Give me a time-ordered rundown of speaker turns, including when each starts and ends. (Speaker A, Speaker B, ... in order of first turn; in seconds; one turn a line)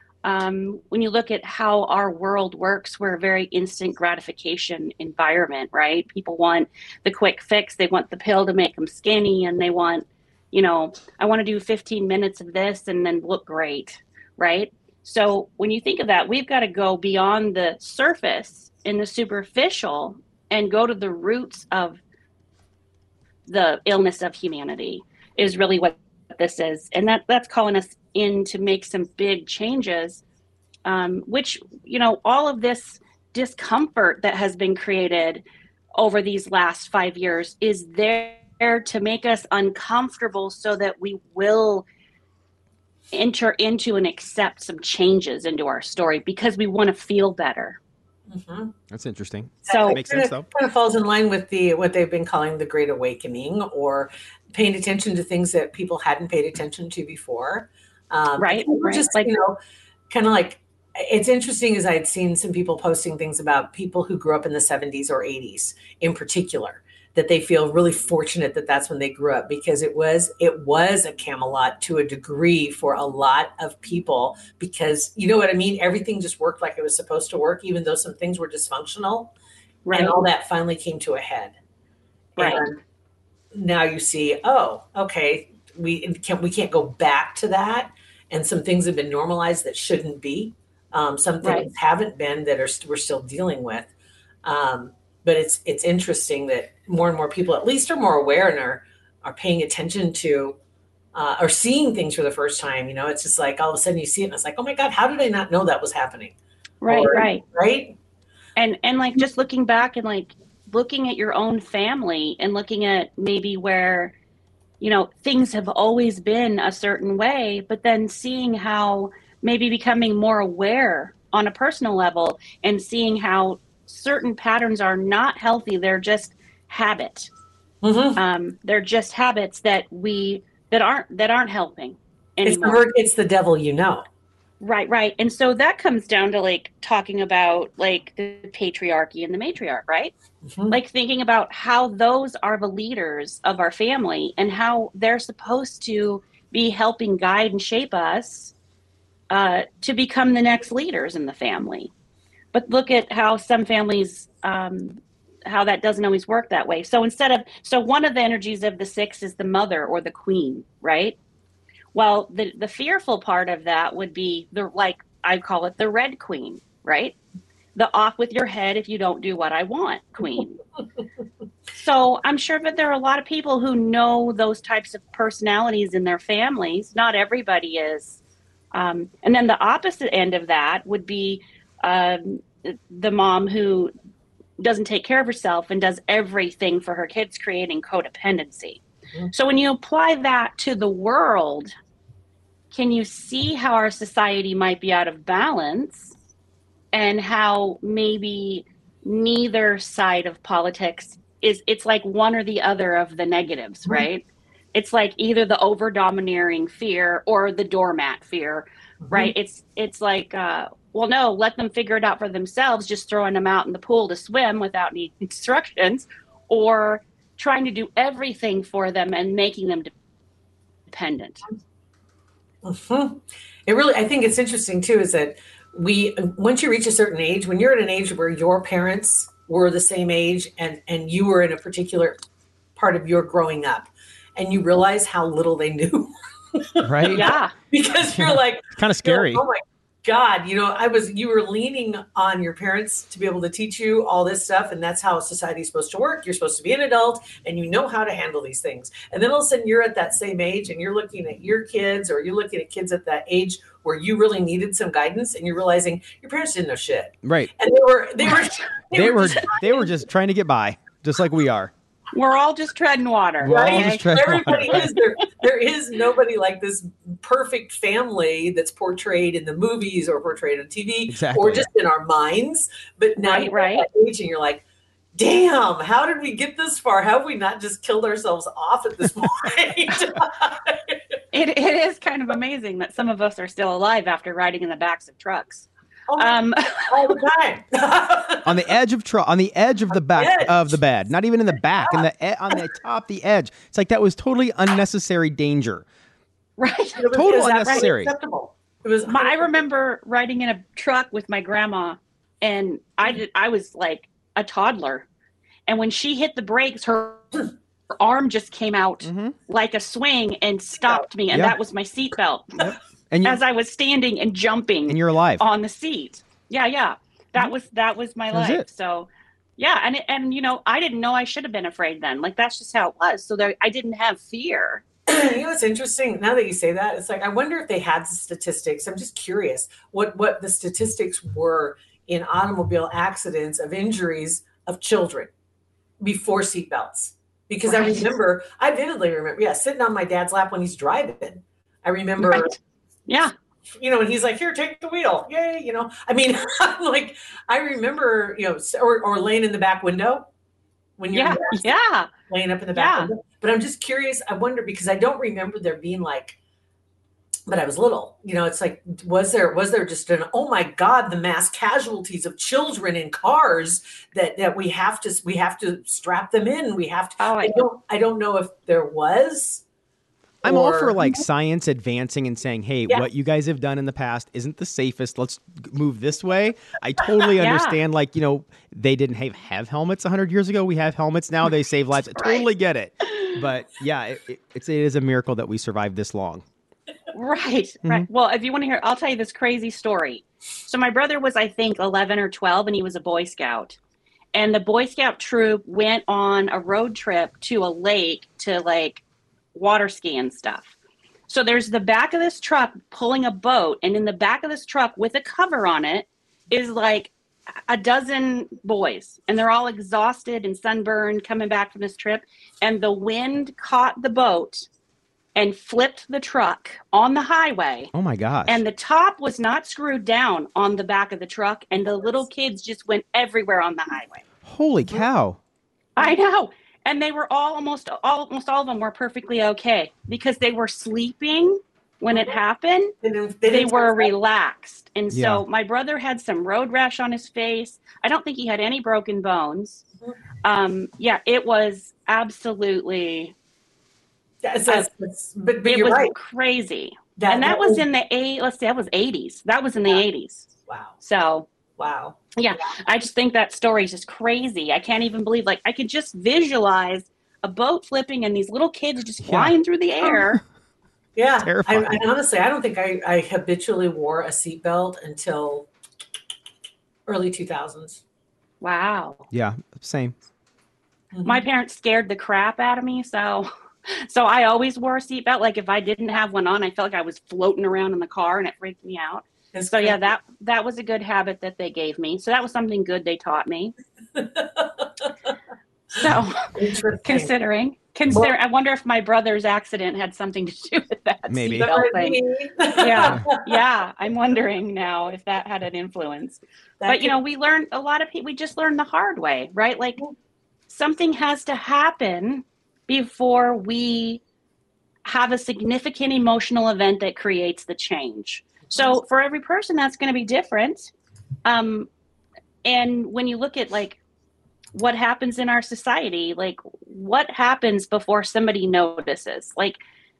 Speaker A: 0.2-22.0
Speaker A: 23.5-30.2
Speaker A: 30.8-35.4
Speaker A: 35.9-41.8
Speaker A: 43.1-47.8
Speaker B: 48.3-48.7
Speaker C: 48.9-50.5
Speaker A: 49.6-50.0
Speaker B: 49.6-59.6
Speaker A: 58.4-59.3
Speaker B: 60.1-79.3
Speaker A: 79.8-80.2
Speaker B: 79.9-81.5
Speaker A: 82.4-82.6
Speaker B: 82.4-82.8
Speaker B: 83.5-93.9
Speaker A: 91.4-91.7
Speaker B: 94.4-100.6
Speaker B: 101.1-106.3
Speaker A: 106.8-107.4
Speaker B: 106.9-108.0
Speaker A: 108.6-114.1
Speaker A: 114.8-127.3
Speaker B: 127.8-128.2
Speaker A: 128.2-132.8
Speaker B: 132.4-134.1
Speaker A: 134.6-140.1
Speaker B: 140.4-140.8
Speaker A: 140.7-148.5
Speaker A: 149.3-151.9
Speaker A: 152.5-161.2
Speaker A: 161.9-167.2
Speaker A: 167.7-170.6
Speaker A: 171.7-178.2
Speaker A: 178.7-183.9
Speaker A: 184.6-191.7
Speaker A: 192.7-196.1
Speaker A: 196.9-219.9
Speaker B: 209.0-209.3
Speaker A: 220.9-221.4
Speaker B: 222.6-232.2
Speaker B: 232.8-259.9
Speaker C: 236.8-237.3
Speaker A: 237.1-237.5
Speaker C: 238.0-239.4
Speaker C: 257.2-257.5
Speaker C: 258.9-261.7
Speaker A: 262.1-264.9
Speaker B: 263.4-274.6
Speaker C: 263.4-264.9
Speaker C: 271.1-271.7
Speaker A: 273.2-273.9
Speaker B: 275.1-281.2
Speaker A: 281.3-285.7
Speaker B: 286.1-288.7
Speaker A: 286.2-287.0
Speaker C: 288.4-295.8
Speaker B: 289.9-290.8
Speaker B: 291.8-292.6
Speaker A: 296.6-297.1
Speaker B: 296.9-299.6
Speaker C: 297.1-298.1
Speaker A: 299.1-305.1
Speaker A: 305.7-307.4
Speaker A: 308.0-312.7
Speaker C: 309.0-309.3
Speaker C: 312.6-313.4
Speaker A: 313.2-324.8
Speaker C: 314.9-315.4
Speaker C: 318.3-318.6
Speaker B: 325.1-335.3
Speaker B: 336.0-342.6
Speaker A: 337.6-338.1
Speaker A: 342.2-342.6
Speaker A: 343.1-343.3
Speaker B: 343.7-350.3
Speaker B: 351.0-351.7
Speaker A: 351.1-352.1
Speaker B: 352.3-356.4
Speaker A: 352.7-353.1
Speaker B: 357.5-369.6
Speaker A: 367.2-367.6
Speaker B: 370.4-371.2
Speaker C: 370.4-386.4
Speaker A: 377.4-377.8
Speaker A: 387.1-393.8
Speaker A: 394.3-399.0
Speaker A: 399.5-400.8
Speaker A: 401.3-407.1
Speaker A: 407.7-414.7
Speaker A: 415.4-417.9
Speaker C: 417.9-418.6
Speaker A: 418.4-424.2
Speaker C: 424.4-425.4
Speaker A: 425.9-432.9
Speaker B: 432.1-432.4
Speaker B: 433.0-434.1
Speaker A: 433.5-439.8
Speaker C: 435.1-435.4
Speaker A: 440.4-443.3
Speaker B: 444.4-446.1
Speaker A: 445.6-450.5
Speaker B: 447.2-447.8
Speaker B: 450.7-450.9
Speaker A: 451.0-451.5
Speaker B: 451.8-452.3
Speaker A: 452.4-460.4
Speaker C: 459.2-459.5
Speaker B: 461.1-465.7
Speaker C: 461.4-462.0
Speaker B: 467.1-468.0
Speaker A: 468.6-469.2
Speaker C: 469.3-470.1
Speaker B: 471.1-471.4
Speaker A: 471.2-483.7
Speaker B: 479.5-480.0
Speaker B: 484.1-485.1
Speaker A: 485.9-492.2
Speaker B: 486.5-487.3
Speaker C: 491.3-491.6
Speaker B: 491.5-493.6
Speaker A: 492.7-500.0
Speaker B: 496.8-497.1
Speaker A: 500.7-504.2
Speaker A: 505.0-510.9
Speaker A: 511.4-511.9
Speaker A: 512.6-514.0
Speaker A: 514.7-519.8